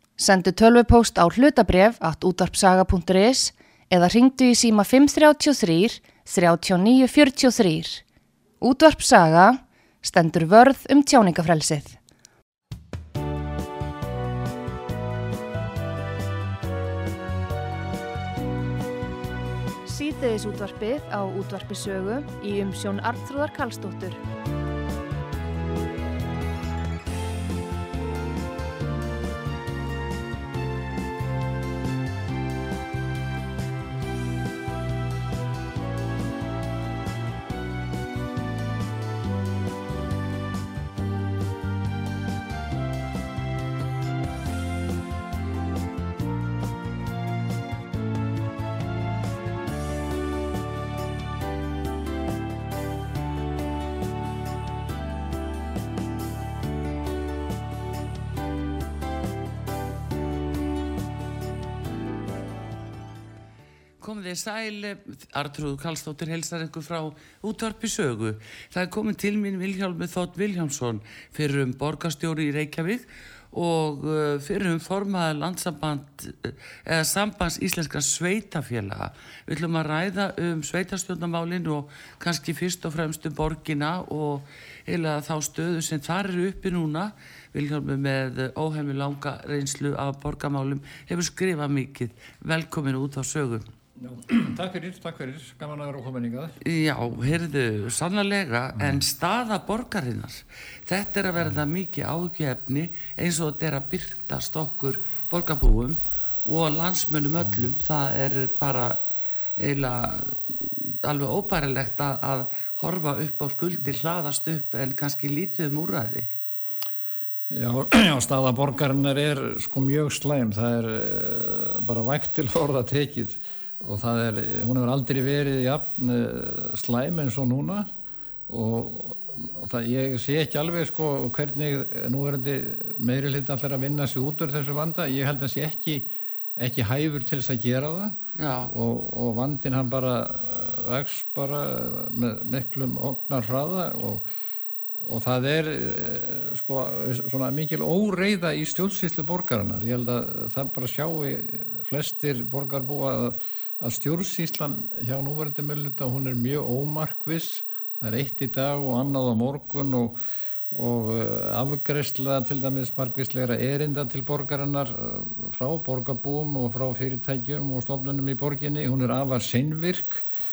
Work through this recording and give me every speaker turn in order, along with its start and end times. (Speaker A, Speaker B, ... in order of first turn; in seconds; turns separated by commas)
Speaker A: 0.2-8.0, Speaker A: 8.6-12.0, Speaker A: 19.9-24.2, Speaker B: 64.0-93.6, Speaker C: 94.0-96.6, Speaker B: 96.6-109.0, Speaker B: 109.6-116.3, Speaker C: 117.5-127.9, Speaker C: 128.5-144.2, Speaker B: 138.3-138.7, Speaker C: 145.0-170.3